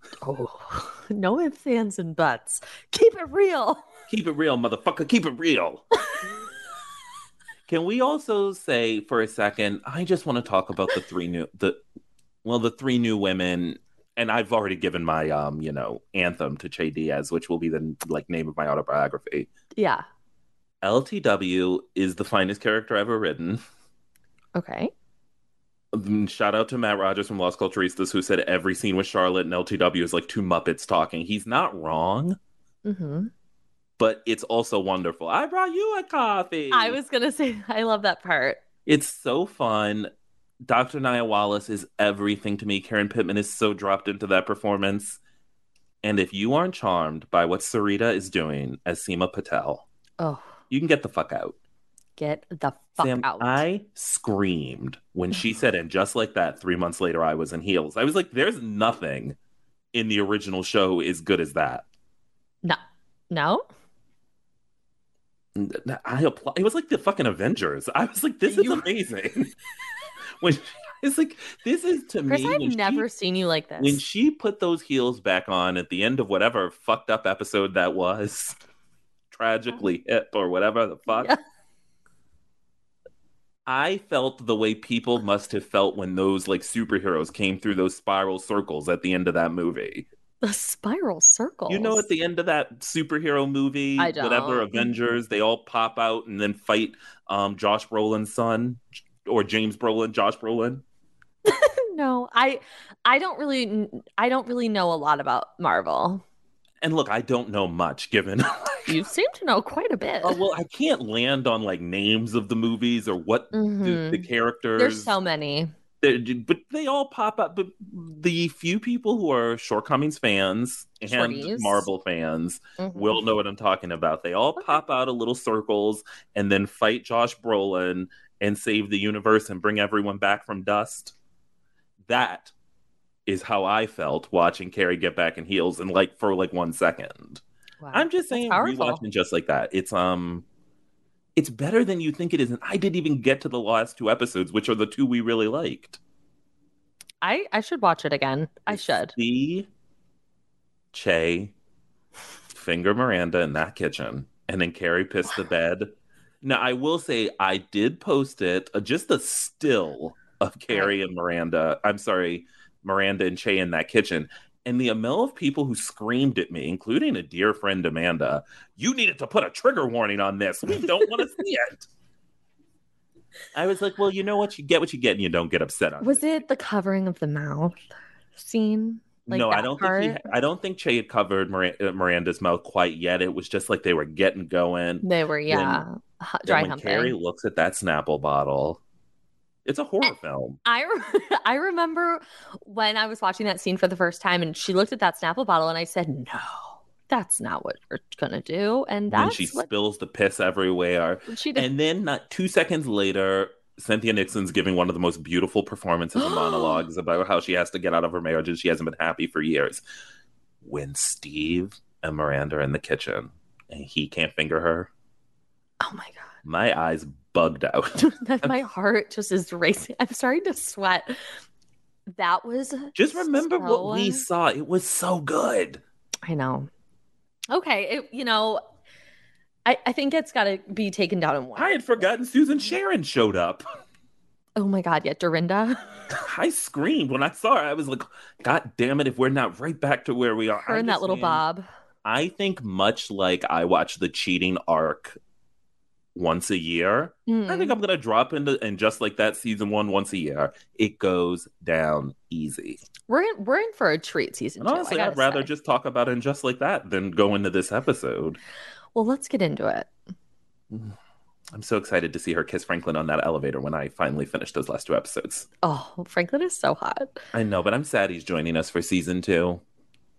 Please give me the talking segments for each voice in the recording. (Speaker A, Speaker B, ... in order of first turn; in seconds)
Speaker A: 0.2-3.8, 19.8-20.0, 24.5-24.9, 32.8-33.3, 36.7-38.6, 50.2-50.5, 52.2-53.6, 62.6-63.6, 68.5-68.8, 72.3-74.0, 81.1-81.4, 90.4-92.0, 94.0-94.9, 101.4-106.2, 108.9-110.4, 113.5-115.7, 121.0-121.9, 122.8-123.2, 137.8-139.0, 147.2-149.1, 160.7-161.0, 176.0-177.8, 178.4-180.2, 185.0-187.2, 190.6-199.7, 201.3-201.7, 206.2-206.8, 215.8-216.2, 218.0-221.1, 222.1-224.2, 226.2-226.7, 227.5-228.6, 229.7-231.8, 234.6-236.0, 240.6-241.7, 247.3-247.7, 253.1-255.5, 258.9-259.9, 265.6-267.2
Speaker B: 4.1-5.8, 7.7-11.8, 12.4-19.5, 20.8-23.6, 25.9-32.4, 34.0-37.0, 38.9-40.1, 40.6-45.2, 46.0-49.8, 50.7-51.5, 53.0-59.4, 59.9-61.8, 65.5-69.5, 70.4-73.1, 73.8-78.6, 79.3-81.3, 83.7-90.1, 91.7-100.8, 106.8-109.0, 110.2-115.1, 116.0-131.1, 132.1-132.5, 133.2-137.4, 137.9-140.4, 141.3-146.0, 148.7-149.7, 150.9-151.5, 152.5-155.9, 156.4-171.9, 173.5-176.2, 179.3-185.8, 186.4-188.8, 189.6-190.6, 199.1-209.8, 210.6-214.9, 216.4-218.5, 222.9-225.8, 231.5-233.6, 236.1-241.4, 242.0-245.2, 246.1-252.8, 254.6-258.4, 260.7-260.9, 261.5-265.5, 267.3-269.6